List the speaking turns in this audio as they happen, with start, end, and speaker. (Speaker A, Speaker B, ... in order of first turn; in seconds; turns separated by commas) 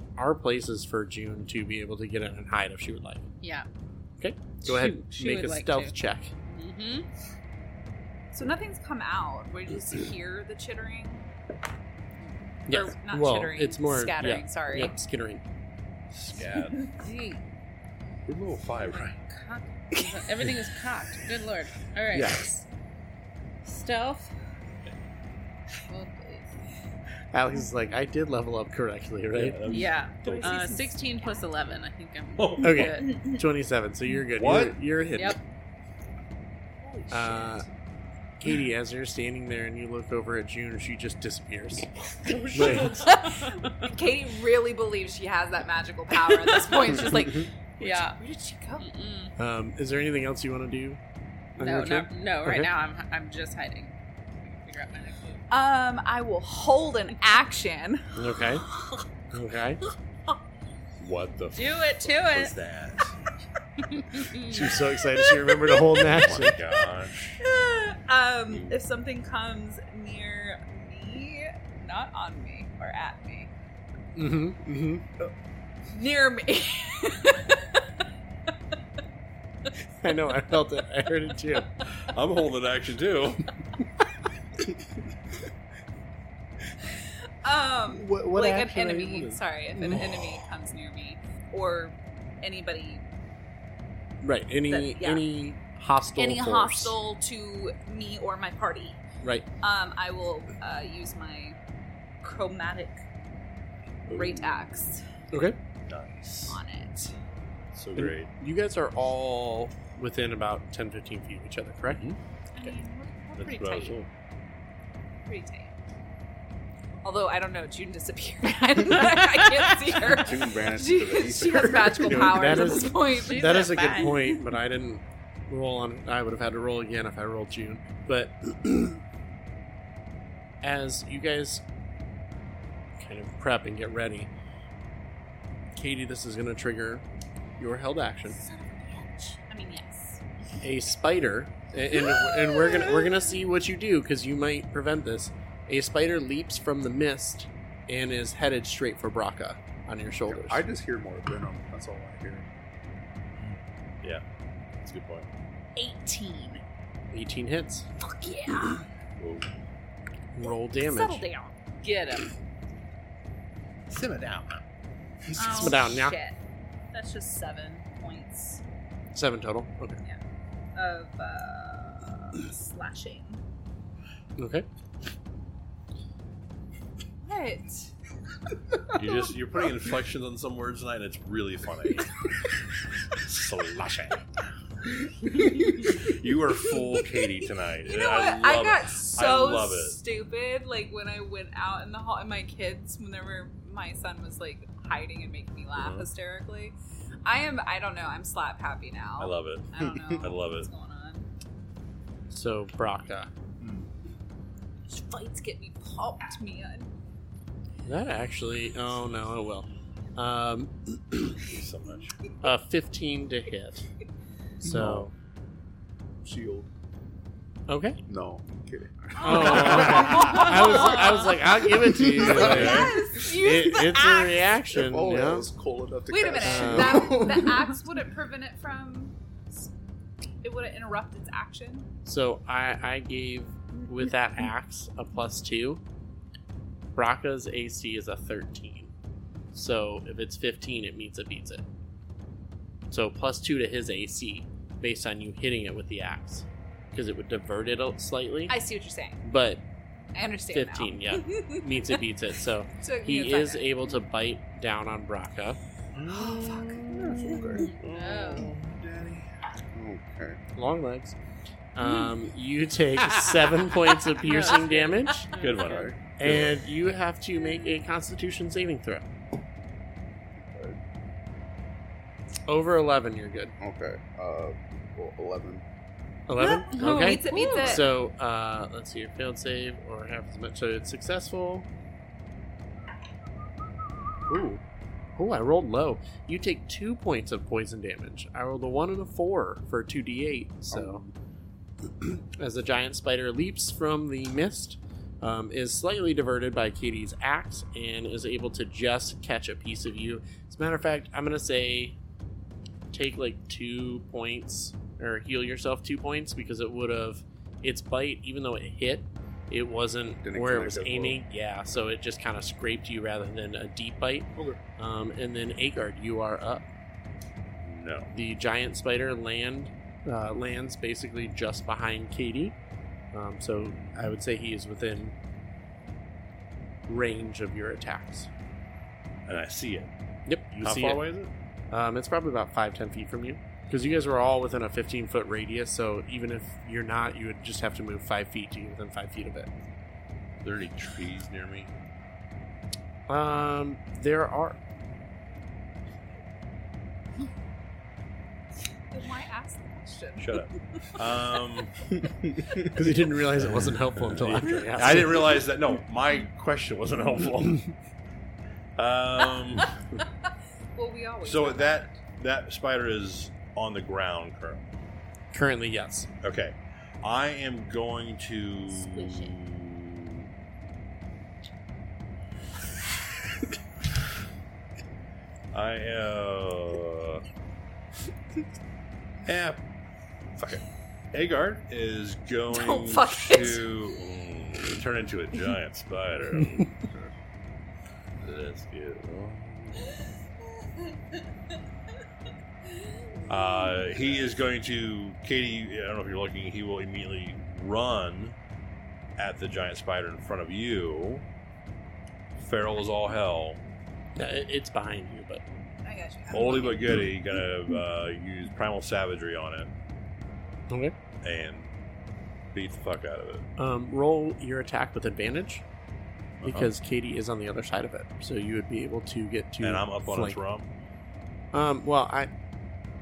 Speaker A: 0.2-3.2, Speaker B: 3.4-3.7, Speaker A: 4.2-6.3, Speaker B: 4.6-7.1, Speaker C: 8.3-11.2, Speaker C: 12.7-14.9, Speaker A: 12.7-15.4, Speaker D: 16.1-16.8, Speaker C: 16.4-17.0, Speaker B: 17.0-17.4, Speaker D: 18.2-19.2, Speaker B: 18.9-22.4, Speaker A: 22.1-22.6, Speaker B: 23.6-24.3, Speaker B: 25.9-26.5, Speaker A: 27.3-29.6, Speaker D: 29.3-30.8, Speaker B: 29.6-33.2, Speaker C: 30.2-31.4, Speaker D: 32.4-33.0, Speaker A: 32.6-35.4, Speaker C: 33.0-33.4, Speaker D: 34.3-34.8, Speaker C: 36.8-37.6, Speaker A: 37.1-37.6, Speaker A: 38.4-41.9, Speaker D: 42.3-43.0, Speaker A: 42.5-43.0, Speaker C: 42.5-48.9, Speaker B: 42.6-43.7, Speaker B: 46.7-47.1, Speaker B: 47.8-48.2, Speaker B: 48.8-49.3, Speaker A: 49.4-51.0, Speaker A: 51.6-52.7, Speaker B: 51.6-55.4, Speaker C: 55.5-58.1, Speaker A: 58.1-58.7, Speaker A: 59.3-59.8, Speaker D: 61.0-63.1, Speaker B: 61.5-62.6, Speaker B: 63.9-64.7, Speaker A: 64.4-66.6, Speaker C: 65.3-66.0, Speaker D: 66.0-67.4, Speaker C: 67.4-73.5, Speaker D: 68.5-68.8, Speaker A: 74.2-75.0, Speaker C: 75.9-77.8, Speaker A: 80.0-81.7, Speaker D: 81.9-83.6, Speaker C: 87.0-93.0, Speaker A: 87.9-90.1, Speaker A: 94.2-97.0, Speaker C: 94.7-95.3, Speaker C: 96.2-99.0, Speaker A: 99.2-99.5, Speaker C: 99.6-101.6, Speaker C: 102.2-103.0, Speaker D: 104.1-104.8, Speaker C: 104.1-105.0, Speaker A: 105.3-105.6, Speaker D: 105.9-106.6, Speaker C: 106.5-107.1, Speaker D: 107.7-108.3, Speaker A: 108.0-112.0, Speaker D: 111.9-112.2, Speaker C: 112.5-114.0, Speaker D: 113.4-114.1, Speaker C: 115.2-115.7, Speaker C: 117.0-124.4, Speaker E: 120.0-122.0, Speaker A: 121.8-129.0, Speaker B: 123.2-124.3, Speaker A: 130.6-131.6, Speaker A: 133.0-134.3, Speaker A: 135.8-137.0, Speaker A: 137.6-138.4, Speaker C: 138.4-140.2, Speaker A: 140.6-150.6, Speaker C: 141.9-143.3, Speaker E: 150.3-152.5, Speaker D: 153.4-154.2, Speaker D: 154.8-155.3, Speaker C: 155.8-156.6, Speaker A: 157.1-157.9, Speaker C: 158.0-158.8, Speaker D: 159.2-159.5, Speaker A: 160.3-161.2, Speaker C: 160.7-161.5, Speaker B: 161.8-162.3, Speaker D: 163.9-164.6, Speaker C: 165.3-166.4, Speaker A: 165.4-166.2, Speaker C: 166.9-168.6, Speaker A: 169.1-170.0, Speaker C: 170.7-173.4, Speaker A: 174.4-174.7, Speaker C: 177.2-177.9, Speaker D: 178.9-182.3, Speaker D: 183.1-184.3, Speaker D: 185.0-190.0, Speaker C: 185.3-186.0, Speaker C: 186.7-187.3, Speaker C: 187.8-201.3, Speaker D: 195.7-196.1, Speaker D: 199.2-200.7, Speaker E: 199.8-200.1, Speaker A: 202.3-203.3, Speaker E: 203.6-203.9, Speaker C: 204.9-206.9, Speaker A: 207.8-211.4, Speaker D: 211.4-212.2, Speaker A: 212.4-213.8, Speaker A: 214.6-215.1, Speaker E: 214.6-215.0, Speaker D: 214.8-215.0, Speaker E: 216.2-216.7, Speaker A: 217.7-218.0, Speaker E: 218.1-220.1, Speaker C: 219.2-221.4, Speaker A: 219.2-225.5, Speaker D: 219.5-220.4, Speaker E: 221.8-222.9, Speaker C: 222.2-224.6, Speaker D: 222.2-223.1, Speaker E: 224.7-227.8, Speaker C: 226.1-229.7, Speaker A: 226.4-227.4, Speaker C: 230.4-231.9, Speaker A: 232.0-235.8, Speaker A: 236.9-238.9, Speaker A: 239.5-241.6, Speaker A: 242.9-248.6, Speaker C: 248.5-249.2, Speaker A: 249.2-249.6, Speaker C: 250.1-252.0, Speaker A: 250.5-255.6, Speaker C: 252.8-253.8, Speaker D: 255.9-259.3, Speaker C: 256.1-257.8, Speaker E: 256.8-257.7, Speaker B: 257.7-258.5, Speaker E: 259.7-260.4, Speaker A: 260.5-261.2, Speaker A: 261.7-265.3, Speaker B: 264.1-265.9, Speaker D: 265.3-266.6, Speaker E: 265.6-266.0, Speaker A: 266.2-269.1, Speaker E: 270.4-270.8, Speaker A: 272.5-273.6, Speaker E: 273.6-275.6, Speaker A: 276.3-281.7, Speaker C: 276.4-277.9, Speaker B: 276.7-277.8, Speaker A: 284.3-284.6, Speaker A: 285.1-291.0, Speaker E: 290.7-291.1, Speaker A: 292.0-302.0, Speaker A: 302.9-316.6, Speaker E: 310.2-311.2, Speaker D: 317.6-318.1, Speaker A: 318.1-322.6, Speaker A: 323.1-325.1, Speaker D: 323.6-324.1, Speaker A: 326.9-328.3, Speaker D: 329.3-329.9, Speaker A: 330.3-331.0, Speaker D: 330.6-331.3, Speaker A: 331.7-339.5, Speaker D: 340.4-341.7, Speaker A: 343.1-344.6, Speaker C: 348.9-350.4, Speaker D: 350.2-351.7, Speaker E: 352.0-352.5, Speaker A: 352.7-355.3, Speaker D: 353.4-357.7, Speaker D: 358.8-359.8, Speaker C: 360.7-362.0, Speaker D: 361.2-364.7, Speaker A: 365.3-366.1, Speaker D: 366.2-370.3, Speaker C: 368.9-369.3, Speaker D: 375.5-377.2, Speaker D: 379.2-379.6, Speaker D: 380.4-386.7, Speaker C: 382.5-383.7, Speaker E: 386.8-387.1, Speaker D: 388.2-390.0, Speaker D: 393.3-398.4, Speaker D: 399.2-401.2, Speaker D: 402.4-403.6, Speaker A: 404.1-405.4, Speaker C: 405.8-407.0, Speaker D: 406.3-409.7, Speaker A: 410.7-410.9, Speaker D: 411.2-411.7, Speaker D: 412.5-413.4, Speaker A: 413.6-415.6, Speaker D: 416.4-416.7, Speaker A: 416.4-420.4, Speaker D: 419.6-420.7, Speaker A: 421.5-422.3